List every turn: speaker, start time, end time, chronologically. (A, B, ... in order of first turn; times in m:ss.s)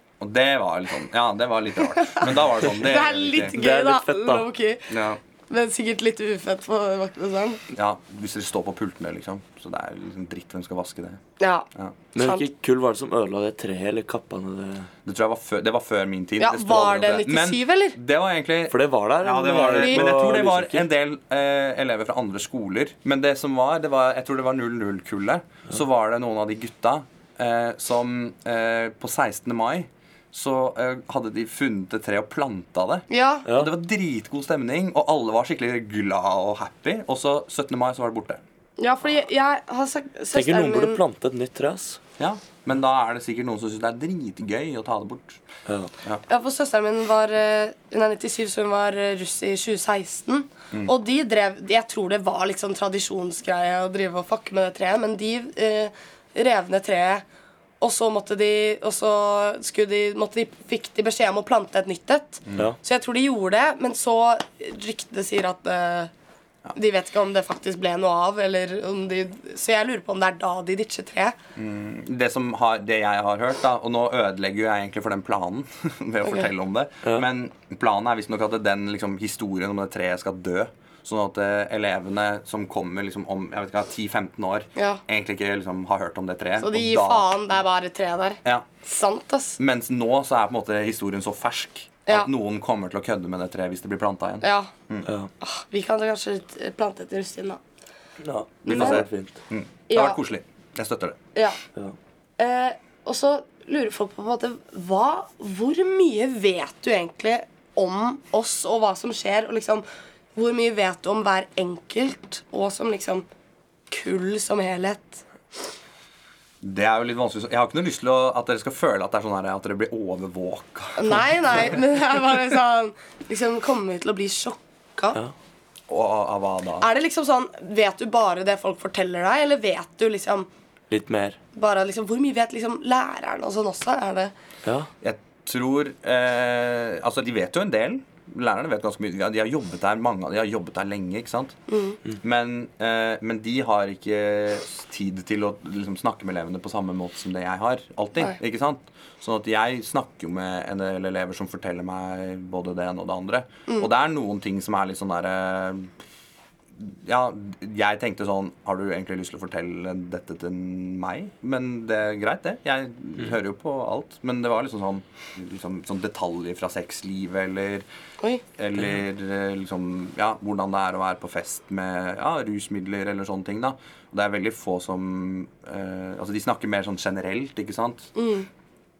0:00.2-0:03.6 A
0:02.0-0:04.9 B
0:03.5-0:04.5 C
0:04.9-0:05.2 A
0:05.5-0:07.6 B
0:07.7-0:11.2 A
0:11.4-0:12.4 B
0:12.1-0:14.9 C
0:15.0-0:38.4 A
0:16.4-0:18.0 B
0:18.7-0:20.8 C
0:19.7-0:20.0 B
0:33.1-0:33.5 B
0:38.8-0:41.0 B
0:40.3-0:42.0 C
0:42.2-0:45.4 A
0:46.3-0:57.2 B
0:57.8-1:06.1 B
1:02.4-1:02.7 A
1:06.7-1:11.4 B
1:11.6-1:27.3 A
1:24.8-1:25.0 B
1:26.6-1:29.6 B
1:29.6-1:35.1 A
1:34.4-1:34.7 B
1:35.4-1:37.6 B
1:38.2-1:39.3 C
1:38.6-1:41.2 A
1:38.7-1:39.0 B
1:39.9-1:40.2 B
1:42.4-1:49.8 B
1:50.4-1:53.2 B
1:53.9-1:55.2 B
1:56.6-2:01.7 A
2:01.0-2:05.2 B
2:05.9-2:06.9 A
2:06.8-2:10.5 B
2:10.9-2:11.4 C
2:11.5-2:14.3 B
2:15.0-2:21.6 A
2:21.7-2:22.0 B
2:22.2-2:35.9 A
2:36.8-2:47.8 A
2:48.6-2:58.1 A
2:58.1-2:58.5 B